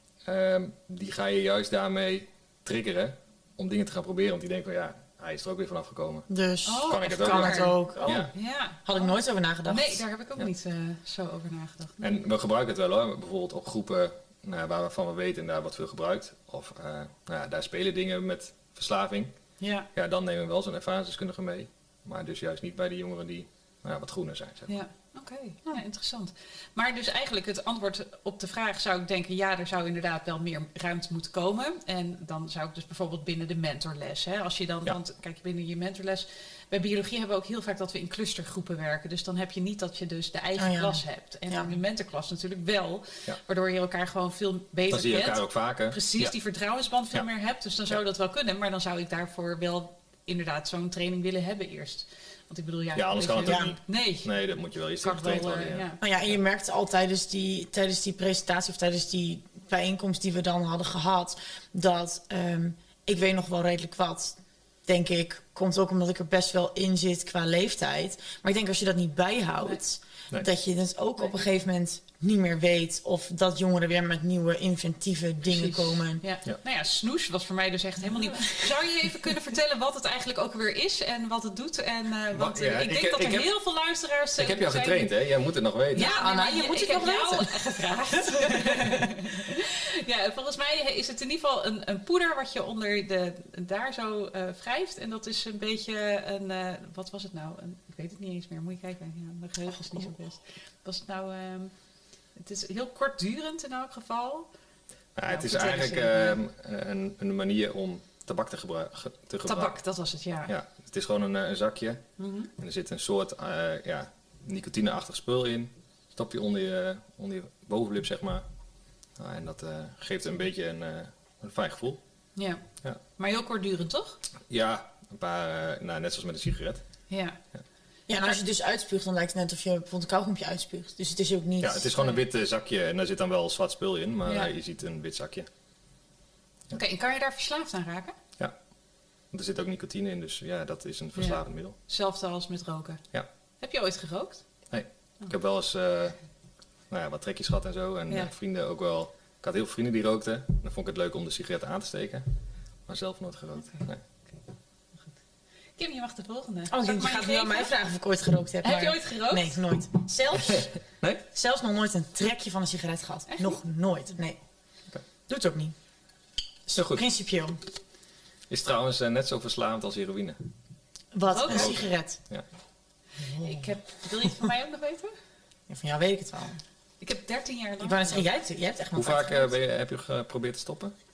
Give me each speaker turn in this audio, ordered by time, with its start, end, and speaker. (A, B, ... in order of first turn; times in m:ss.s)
0:00.2-0:06.3 A
0:06.3-0:08.3 B
0:06.7-0:08.9 C
0:06.9-0:08.3 A
0:08.8-0:10.0 B
0:09.7-0:12.0 C
0:12.0-0:19.3 A
0:19.6-0:19.9 C
0:20.0-0:24.7 A
0:24.7-0:54.3 C
0:40.6-0:41.7 B
0:44.9-0:46.3 A
0:53.0-0:55.9 A
0:53.4-0:53.7 B
0:55.0-0:56.0 C
0:56.0-1:16.2 B
1:15.5-1:25.1 C
1:22.3-1:23.5 A
1:24.4-1:26.2 A
1:25.9-1:41.7 C
1:26.0-1:27.6 B
1:28.5-1:29.0 B
1:42.4-1:44.5 C
1:45.2-1:49.8 A
1:45.3-1:46.4 C
1:49.4-1:50.5 C
1:50.5-1:52.0 A
1:52.2-1:52.5 C
1:52.6-1:58.4 A
1:59.2-2:02.0 A
2:02.4-2:02.6 C
2:03.2-2:04.2 C
2:04.5-2:06.8 A
2:07.1-2:07.4 C
2:08.1-2:12.1 B
2:11.6-2:15.5 A
2:16.7-2:18.2 C
2:19.3-2:21.8 A
2:21.2-2:23.0 C
2:23.6-2:24.4 C
2:24.7-2:26.2 A
2:26.9-2:32.3 A
2:32.9-2:34.0 A
2:33.7-2:34.4 C
2:35.8-2:37.7 C
2:36.7-2:40.7 B
2:38.6-2:39.6 C
2:40.5-2:41.2 A
2:41.3-2:44.4 B
2:43.3-2:43.6 C
2:45.3-2:45.7 B
2:46.7-2:47.1 A
2:46.8-2:47.6 B
2:48.5-2:50.4 A
2:51.1-2:52.2 B
2:51.3-2:51.8 C
2:51.5-2:52.4 A
2:53.2-2:53.6 B
2:53.3-2:55.1 C
2:55.7-2:56.6 B
2:57.0-2:58.3 C
2:57.8-2:59.5 B
2:59.0-3:00.9 A